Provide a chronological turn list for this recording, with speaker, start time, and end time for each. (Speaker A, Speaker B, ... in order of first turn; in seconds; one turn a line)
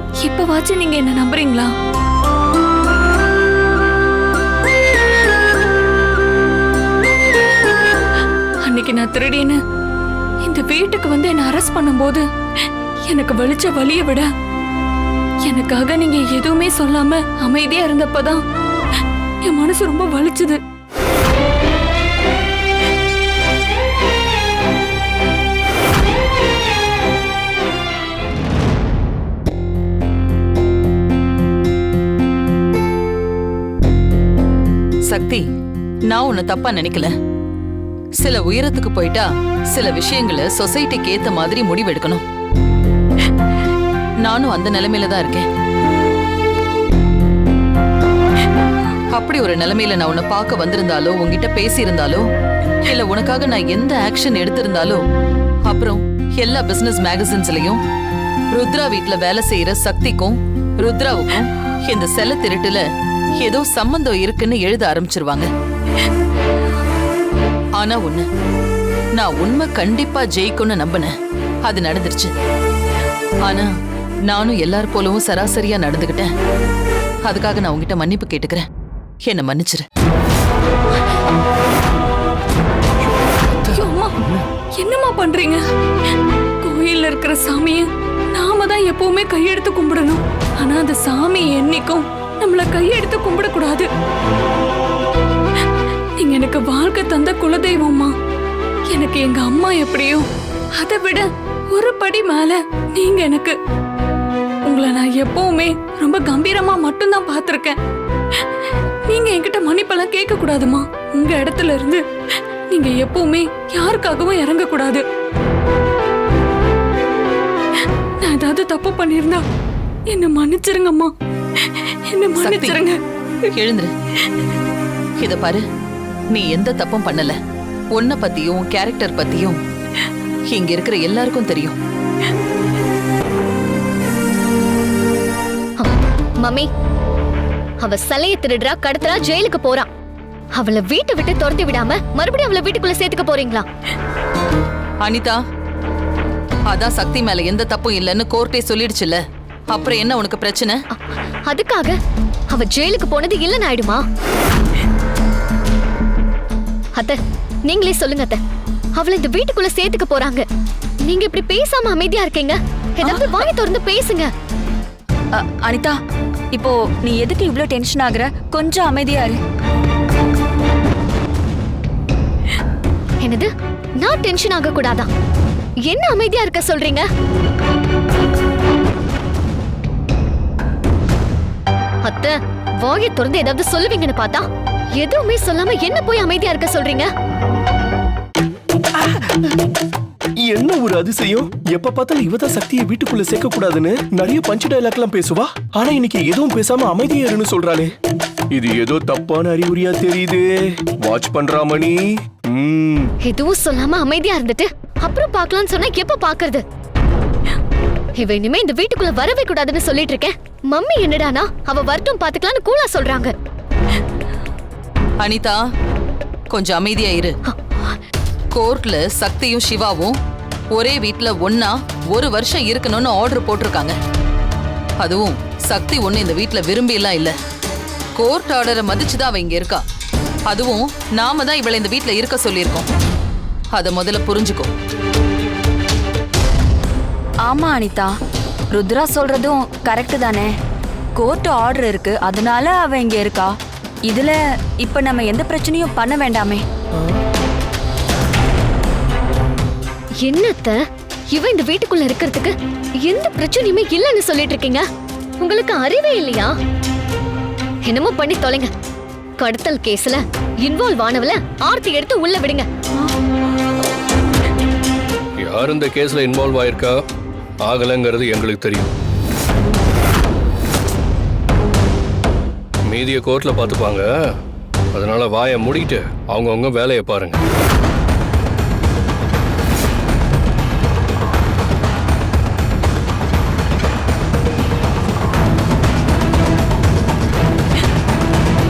Speaker A: 0.2-1.7
Speaker A: 8.7-9.6
Speaker A: 10.4-12.2
Speaker A: 13.1-14.3
Speaker A: 15.4-18.4
Speaker A: 19.4-20.6
Speaker B: 35.1-35.5
Speaker B: 36.1-37.1
Speaker B: 38.2-42.2
Speaker B: 44.2-45.5
Speaker B: 49.1-52.2
Speaker B: 52.8-55.0
Speaker B: 55.6-57.8
Speaker B: 58.5-62.8
Speaker B: 63.4-65.5
Speaker B: 67.8-68.3
Speaker B: 69.2-71.1
Speaker B: 71.6-72.3
Speaker B: 74.3-76.3
Speaker B: 77.2-78.7
Speaker B: 79.2-79.8
Speaker A: 83.7-84.2
Speaker A: 84.8-85.6
Speaker A: 86.6-93.9
Speaker A: 96.2-98.1
Speaker A: 98.9-100.2
Speaker A: 100.8-103.5
Speaker A: 104.7-107.8
Speaker A: 109.1-112.0
Speaker A: 112.7-115.0
Speaker A: 118.2-119.4
Speaker A: 120.1-121.1
Speaker A: 122.1-123.0
Speaker B: 122.4-122.8
Speaker B: 123.5-123.9
Speaker B: 125.2-125.6
Speaker B: 126.3-127.3
Speaker B: 127.9-129.6
Speaker B: 130.5-131.8
Speaker C: 135.8-136.7
Speaker C: 137.8-139.9
Speaker C: 140.6-143.6
Speaker B: 145.0-145.4
Speaker B: 146.7-150.8
Speaker C: 151.5-152.0
Speaker C: 152.5-154.0
Speaker C: 156.9-158.4
Speaker C: 158.9-160.4
Speaker C: 161.1-164.3
Speaker D: 163.0-163.4
Speaker D: 165.3-165.9
Speaker D: 166.5-169.4
Speaker C: 173.2-173.5
Speaker C: 174.0-175.1
Speaker C: 175.9-177.1
Speaker C: 182.0-184.4
Speaker C: 185.0-187.1
Speaker E: 190.4-197.9
Speaker E: 198.5-203.1
Speaker C: 203.2-206.6
Speaker C: 208.2-213.3
Speaker B: 215.2-215.6
Speaker B: 216.5-217.4
Speaker B: 218.5-220.2
Speaker B: 220.7-224.0
Speaker B: 225.0-227.3
Speaker B: 228.2-229.8
Speaker B: 230.5-232.9
Speaker B: 233.7-234.7
Speaker D: 237.4-238.1
Speaker D: 238.7-240.5
Speaker D: 241.2-243.5
Speaker D: 244.1-246.6
Speaker C: 250.2-250.8
Speaker C: 251.3-252.5
Speaker C: 253.1-254.8
Speaker C: 255.4-256.5
Speaker C: 257.9-258.7
Speaker C: 259.4-262.7
Speaker F: 265.4-267.0
Speaker F: 267.6-268.9
Speaker F: 272.9-274.4
Speaker F: 274.9-277.4